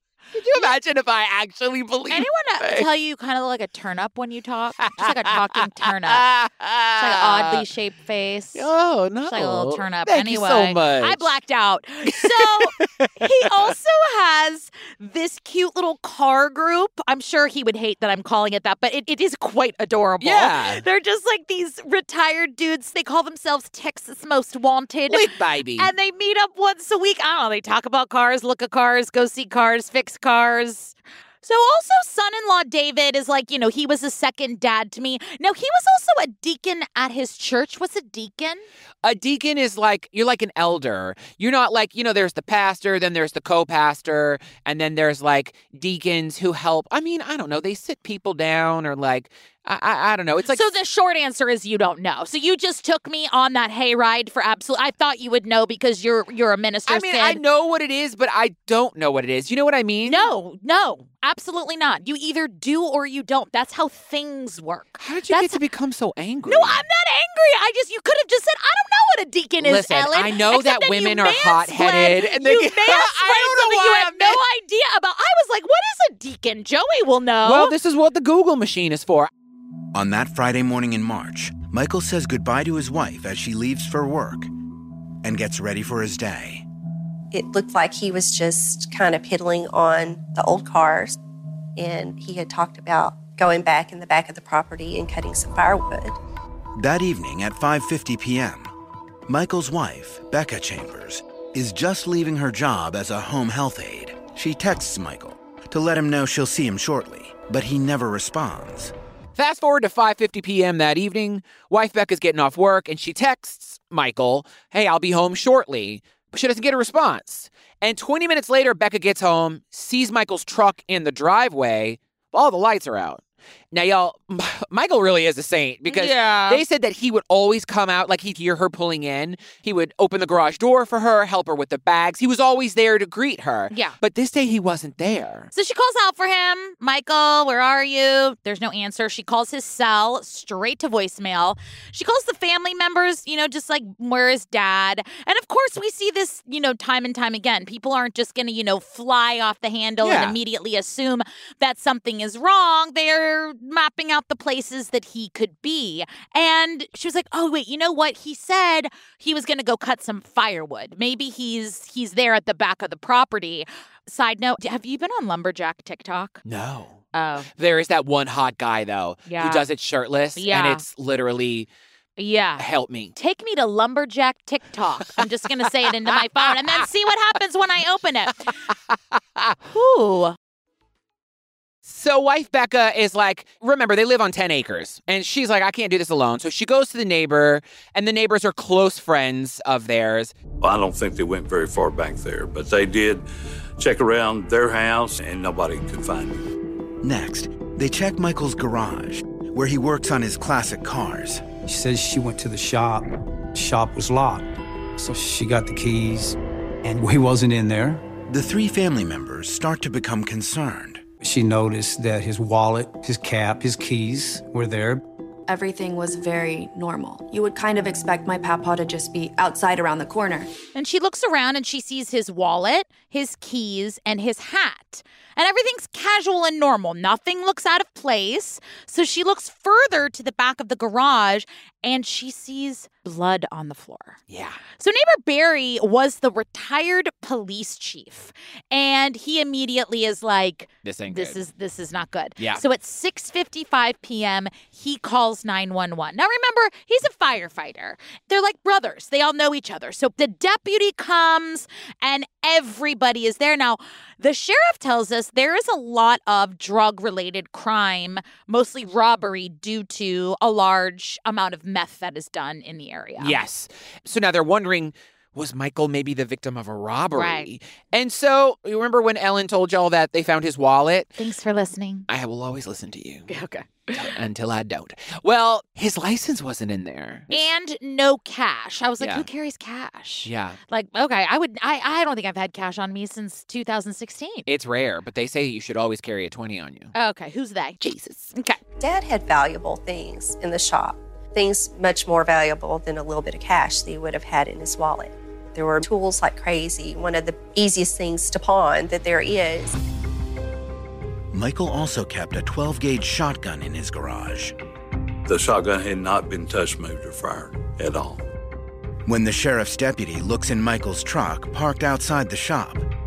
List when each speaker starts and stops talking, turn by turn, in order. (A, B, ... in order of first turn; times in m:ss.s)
0:00.3-0:02.9 A
0:02.1-0:06.2 B
0:04.8-0:07.7 A
0:07.0-0:08.7 B
0:08.5-0:11.3 A
0:09.3-0:38.6 B
0:12.1-0:13.7 A
0:20.2-0:20.8 A
0:25.1-0:25.9 A
0:39.0-0:50.7 A
0:50.4-0:57.4 B
0:56.9-1:00.3 A
1:00.0-1:05.6 B
1:05.0-1:06.8 A
1:06.5-1:17.7 B
1:09.6-1:14.4 A
1:17.4-1:19.3 A
1:19.9-1:24.5 C
1:25.2-1:26.6 C
1:27.3-1:31.2 D
1:31.8-1:36.2 D
1:36.8-1:38.7 C
1:39.3-1:48.9 C
1:49.4-2:15.5 A
2:05.9-2:06.6 B
2:15.5-2:46.4 B
2:30.0-2:30.4 A
2:46.4-2:47.0 A
2:47.1-2:47.5 B
2:47.5-2:51.7 A
2:49.3-2:49.6 B
2:50.4-2:50.8 B
2:52.2-2:58.6 B
2:52.6-2:53.1 A
2:56.1-2:56.8 A
2:58.5-2:59.6 A
2:59.6-3:00.4 B
3:01.8-3:10.3 A
3:10.6-3:13.2 E
3:13.8-3:16.4 E
3:17.0-3:21.5 C
3:21.6-3:28.0 F
3:28.3-3:31.0 C
3:31.2-3:35.0 F
3:35.5-3:40.5 G
3:40.7-3:54.2 B
3:54.3-3:54.6 A
3:54.8-4:23.4 B
4:00.8-4:01.4 A
4:02.4-4:02.6 A
4:23.2-4:31.2 A
4:27.1-4:27.5 B
4:31.2-4:32.1 B
4:32.1-4:33.3 A
4:33.3-4:34.1 B
4:33.9-4:37.4 A
4:37.3-4:44.4 B
4:39.0-4:39.3 A
4:40.2-4:40.6 A
4:44.5-4:46.9 A
4:46.9-4:47.8 B
4:47.8-4:48.3 A
4:48.3-4:48.6 B
4:48.8-4:59.8 D
5:01.3-5:04.5 C
5:05.3-5:08.2 E
5:09.0-5:12.9 C